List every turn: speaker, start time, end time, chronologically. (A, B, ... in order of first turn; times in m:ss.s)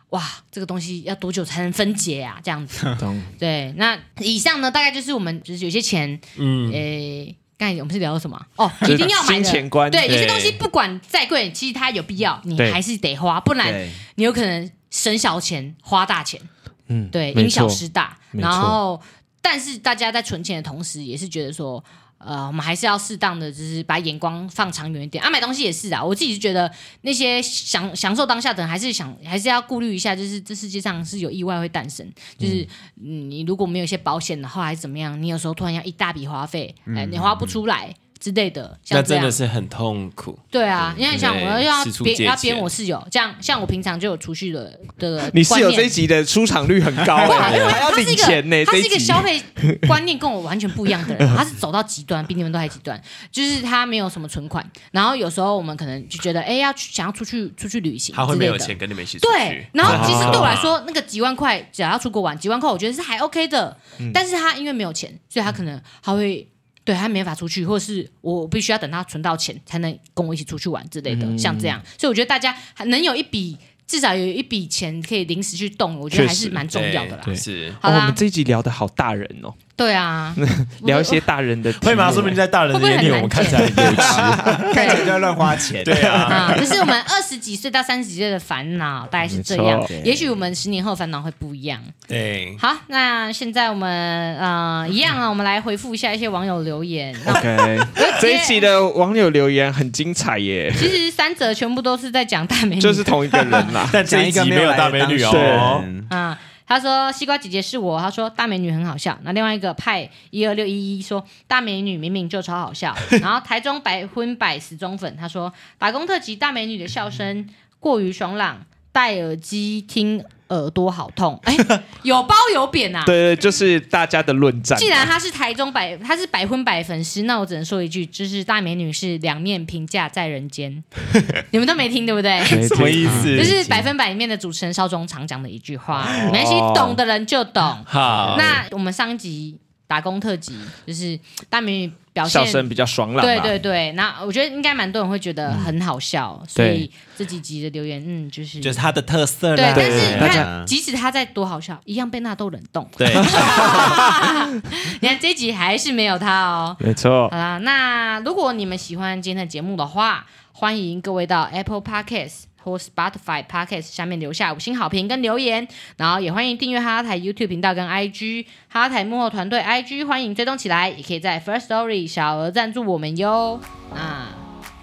0:00.1-0:16.5 A
0:03.0-0:03.3 B
0:06.4-0:06.8 C
0:08.8-0:10.4 B
0:10.1-0:10.6 C
0:13.6-0:14.0 D
0:16.9-0:17.8 B
0:17.1-0:39.4 A
0:18.3-0:18.8 B
0:36.9-0:37.5 D
0:38.9-0:42.7 C
0:40.5-0:45.9 A
0:45.3-0:49.9 B
0:47.2-1:18.2 A
0:47.4-0:47.8 C
0:50.9-0:51.4 B
0:58.1-1:00.8 C
0:59.8-1:00.6 B
1:11.1-1:11.8 B
1:16.1-1:16.6 B
1:16.7-1:17.8 C
1:17.2-1:19.6 B
1:19.8-1:21.2 A
1:20.4-1:22.4 B
1:21.7-1:25.0 C
1:22.7-1:25.2 A
1:23.6-1:24.8 B
1:23.8-1:26.5 D
1:25.8-1:26.7 C
1:25.9-1:26.6 B
1:26.2-1:31.9 A
1:29.2-1:30.0 B
1:29.8-1:30.2 D
1:32.1-1:32.6 C
1:32.6-1:38.7 A
1:37.2-1:41.0 B
1:40.7-1:43.7 A
1:42.8-1:44.0 B
1:43.6-1:45.9 C
1:43.9-1:46.1 D
1:45.3-1:45.8 B
1:46.1-2:03.2 A
2:03.0-2:05.1 B
2:04.7-2:28.8 A
2:12.4-2:13.8 C
2:12.5-2:13.5 B
2:12.9-2:13.5 D
2:16.1-2:17.0 B
2:17.9-2:18.6 C
2:22.2-2:23.6 B
2:26.6-2:26.9 B
2:28.6-2:30.4 C
2:29.5-2:54.4 A
2:29.7-2:30.5 B
2:30.1-2:30.7 D
2:33.0-2:34.0 C
2:33.3-2:34.1 B
2:36.8-2:37.3 B